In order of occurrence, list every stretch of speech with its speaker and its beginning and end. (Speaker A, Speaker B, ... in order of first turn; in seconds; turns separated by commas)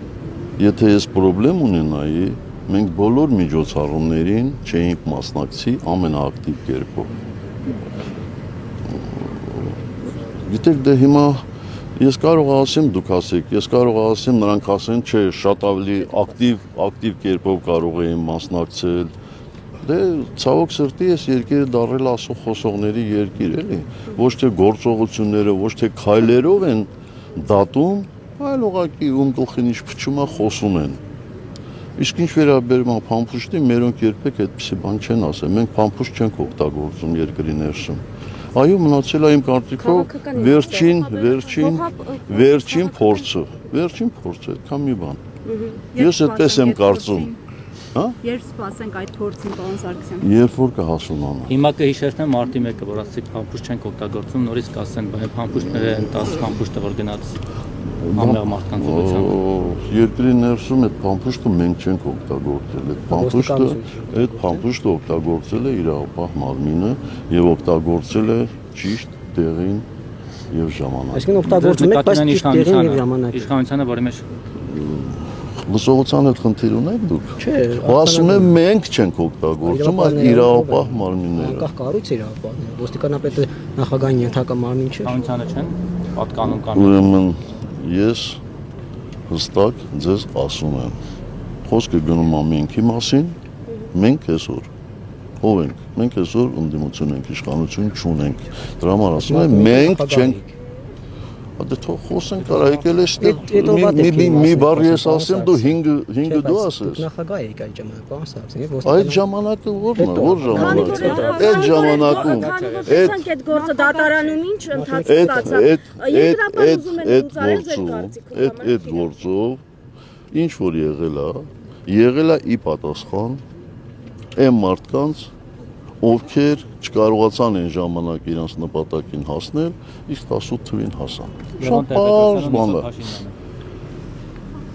Speaker A: 0.6-7.2, Speaker A: 8.9-9.8, Speaker A: 10.4-11.4, Speaker A: 12.0-19.1, Speaker A: 19.8-31.0, Speaker A: 32.0-38.0, Speaker A: 38.5-45.2, Speaker B: 39.8-43.3, Speaker B: 45.4-45.8, Speaker C: 45.9-47.4, Speaker A: 45.9-47.3, Speaker C: 48.2-50.3, Speaker A: 50.2-51.5, Speaker D: 51.5-57.4, Speaker A: 57.9-69.9, Speaker D: 58.1-59.3, Speaker E: 63.1-64.6, Speaker A: 70.5-71.4, Speaker E: 71.1-73.5, Speaker D: 71.4-74.3, Speaker A: 74.6-81.7, Speaker E: 77.4-78.6, Speaker E: 79.6-85.2, Speaker D: 85.0-87.1, Speaker A: 86.6-88.4, Speaker A: 89.3-91.0, Speaker A: 91.7-93.4, Speaker A: 93.9-94.7, Speaker A: 95.4-100.4, Speaker E: 99.2-100.5, Speaker A: 101.6-107.1, Speaker D: 102.4-103.5, Speaker E: 103.2-109.2, Speaker A: 108.8-113.2, Speaker E: 109.9-111.8, Speaker B: 110.5-119.2, Speaker C: 110.7-112.1, Speaker D: 111.0-113.2, Speaker C: 113.5-114.3, Speaker E: 114.7-115.6, Speaker A: 115.0-119.6, Speaker A: 120.3-123.4, Speaker A: 124.3-125.3, Speaker A: 126.0-132.9, Speaker D: 131.6-133.3